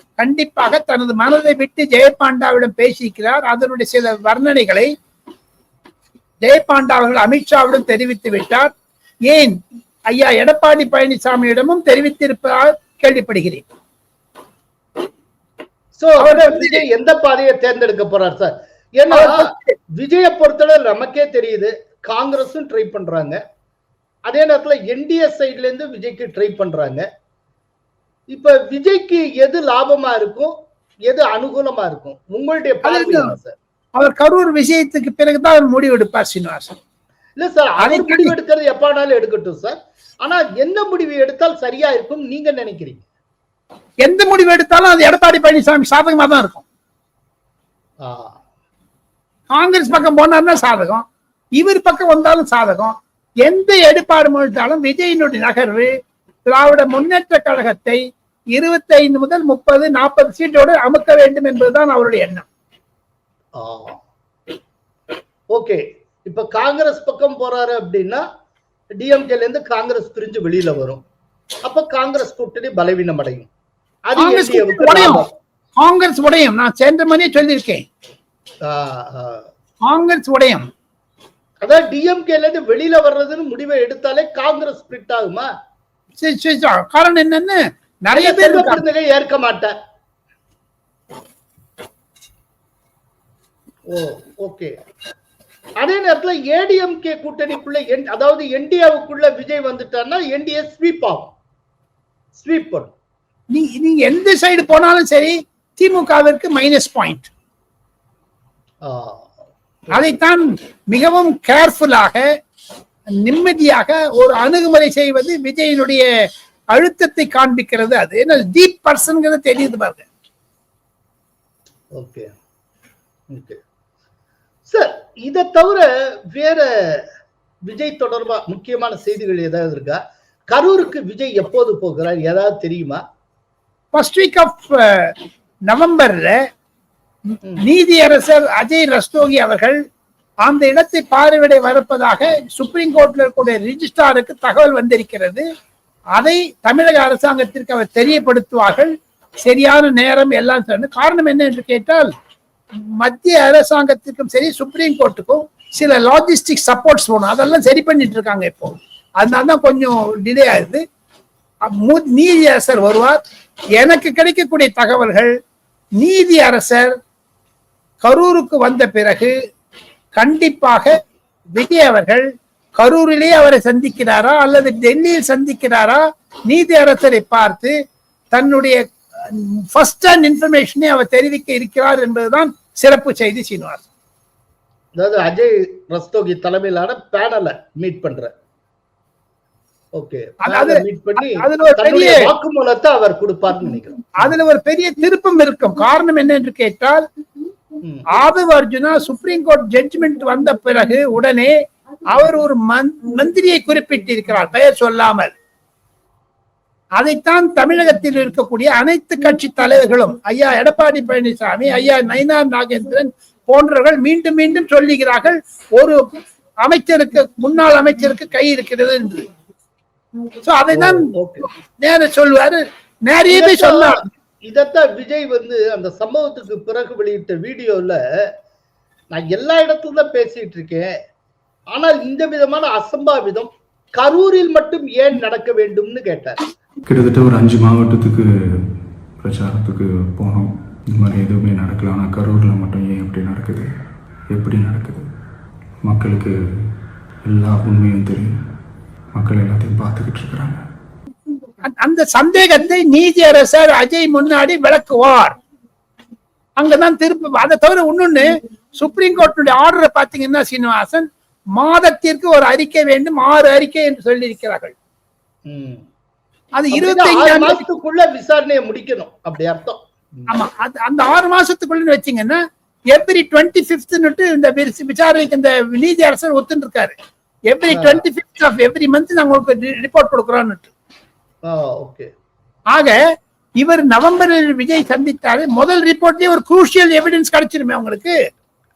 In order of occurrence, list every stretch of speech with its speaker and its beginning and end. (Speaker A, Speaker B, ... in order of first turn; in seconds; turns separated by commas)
Speaker A: 0.2-4.9, Speaker A: 6.4-8.7, Speaker A: 9.3-9.5, Speaker A: 10.1-13.6, Speaker B: 15.9-23.4, Speaker A: 16.2-16.8, Speaker A: 19.1-19.7, Speaker B: 24.2-27.1, Speaker B: 28.3-33.5, Speaker A: 32.8-33.3, Speaker A: 34.0-36.8, Speaker B: 37.4-43.0, Speaker A: 37.8-38.3, Speaker A: 44.0-46.6, Speaker B: 48.0-48.4, Speaker A: 49.5-51.0, Speaker A: 51.5-55.9, Speaker A: 56.5-58.0, Speaker A: 58.5-62.4, Speaker B: 63.5-64.0, Speaker B: 65.5-68.2, Speaker B: 69.0-71.0, Speaker B: 71.6-73.5, Speaker B: 74.0-75.3, Speaker A: 74.2-75.2, Speaker A: 75.8-77.8, Speaker B: 78.6-79.5, Speaker A: 79.8-80.7, Speaker B: 81.6-85.5, Speaker A: 86.2-88.8, Speaker B: 88.1-89.8, Speaker B: 93.9-94.8, Speaker B: 95.8-101.3, Speaker B: 102.3-102.9, Speaker A: 103.5-107.3, Speaker B: 108.8-109.3, Speaker A: 109.9-112.2, Speaker A: 113.2-116.1, Speaker A: 116.7-120.0, Speaker B: 121.9-122.3, Speaker B: 123.3-123.6, Speaker B: 124.7-127.1, Speaker B: 127.7-133.0, Speaker A: 133.9-135.1, Speaker A: 135.7-136.4, Speaker A: 137.6-139.8, Speaker A: 140.4-145.4, Speaker A: 146.2-148.9, Speaker A: 149.4-152.1, Speaker A: 153.0-160.8, Speaker A: 161.7-163.2, Speaker A: 163.8-165.3, Speaker A: 166.0-166.9, Speaker A: 168.0-169.3, Speaker A: 170.2-170.9, Speaker A: 171.5-177.7, Speaker A: 178.3-183.8, Speaker B: 184.9-188.3, Speaker B: 189.9-194.3, Speaker A: 190.4-192.2, Speaker A: 194.2-197.1, Speaker A: 198.1-201.5, Speaker A: 202.1-205.3, Speaker A: 207.0-216.0, Speaker A: 216.6-219.3, Speaker A: 220.4-224.0, Speaker B: 220.7-221.4, Speaker B: 223.3-228.3, Speaker B: 229.1-230.9, Speaker B: 231.7-236.4, Speaker C: 236.9-243.7, Speaker C: 244.3-245.1, Speaker C: 245.8-246.7, Speaker C: 247.2-248.3, Speaker C: 249.1-250.7, Speaker A: 251.6-255.3, Speaker A: 256.6-264.7, Speaker B: 265.4-265.8, Speaker A: 266.5-267.6, Speaker B: 266.7-270.3, Speaker A: 270.3-272.4, Speaker A: 272.9-276.9, Speaker A: 277.5-280.7, Speaker B: 277.7-278.0, Speaker B: 281.4-282.1, Speaker A: 282.7-283.0, Speaker A: 283.6-288.1